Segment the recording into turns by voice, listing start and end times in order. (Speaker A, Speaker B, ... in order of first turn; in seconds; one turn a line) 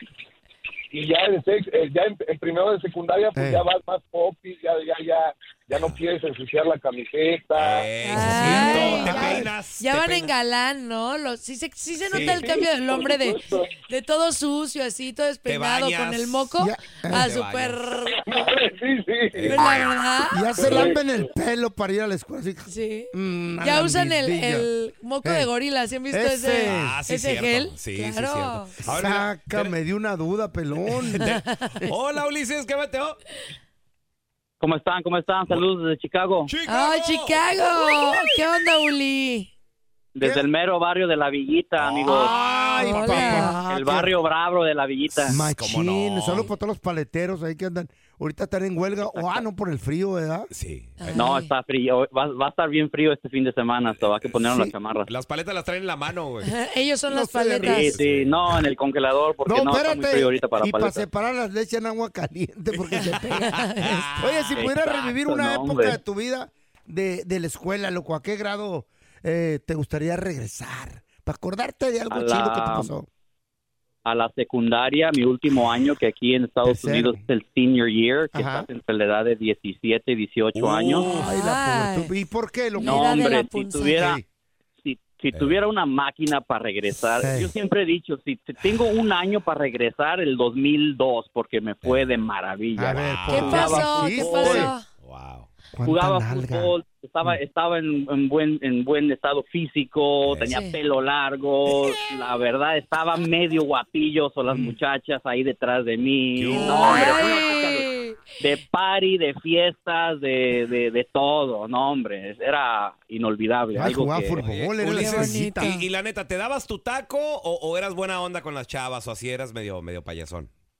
Speaker A: 0.9-7.9
Speaker B: 3.4-3.6
Speaker C: 5.8-6.0
Speaker C: 7.6-10.3
Speaker D: 8.0-18.2
Speaker B: 8.2-9.5
Speaker C: 12.1-12.4
Speaker A: 12.1-13.7
Speaker C: 15.5-16.6
Speaker B: 16.6-17.3
Speaker C: 17.1-17.9
Speaker A: 18.2-19.7
Speaker C: 19.3-20.0
Speaker D: 19.5-20.5
Speaker B: 20.3-24.7
Speaker C: 20.6-20.9
Speaker A: 20.6-21.2
Speaker D: 22.7-28.8
Speaker B: 25.2-25.5
Speaker B: 26.1-27.0
Speaker C: 26.6-29.8
Speaker B: 28.9-31.3
Speaker C: 31.0-33.2
Speaker D: 31.5-31.8
Speaker E: 34.6-36.5
Speaker C: 36.5-38.4
Speaker D: 36.7-39.5
Speaker E: 40.1-42.3
Speaker B: 40.2-40.5
Speaker C: 41.8-43.6
Speaker B: 42.1-44.1
Speaker D: 42.8-43.6
Speaker E: 43.6-45.5
Speaker C: 45.3-46.5
Speaker B: 45.3-50.5
Speaker E: 49.1-49.4
Speaker C: 50.5-51.2
Speaker D: 51.0-51.5
Speaker E: 51.1-55.1
Speaker C: 53.9-54.4
Speaker C: 55.1-56.5
Speaker D: 56.5-57.9
Speaker B: 57.1-58.0
Speaker E: 57.6-61.1
Speaker C: 57.9-58.6
Speaker B: 59.5-63.6
Speaker C: 62.7-64.6
Speaker D: 63.4-64.1
Speaker B: 64.2-73.1
Speaker E: 64.5-66.0
Speaker E: 72.1-72.9
Speaker E: 74.0-81.1
Speaker B: 76.7-77.2
Speaker B: 78.3-78.7
Speaker C: 80.5-81.3
Speaker B: 81.0-83.2
Speaker D: 81.1-82.1
Speaker D: 82.8-84.2
Speaker E: 82.8-84.2
Speaker B: 83.9-84.2
Speaker E: 84.8-94.7
Speaker C: 85.3-85.6
Speaker B: 87.2-87.5
Speaker B: 92.8-94.7
Speaker C: 92.9-93.8
Speaker D: 93.3-94.8
Speaker C: 95.0-95.5
Speaker B: 95.8-97.4
Speaker E: 95.8-114.4
Speaker C: 100.3-100.5
Speaker D: 100.5-100.8
Speaker B: 104.5-104.7
Speaker C: 106.4-107.5
Speaker D: 106.5-108.2
Speaker B: 113.8-115.8
Speaker C: 114.4-120.5
Speaker D: 114.9-115.8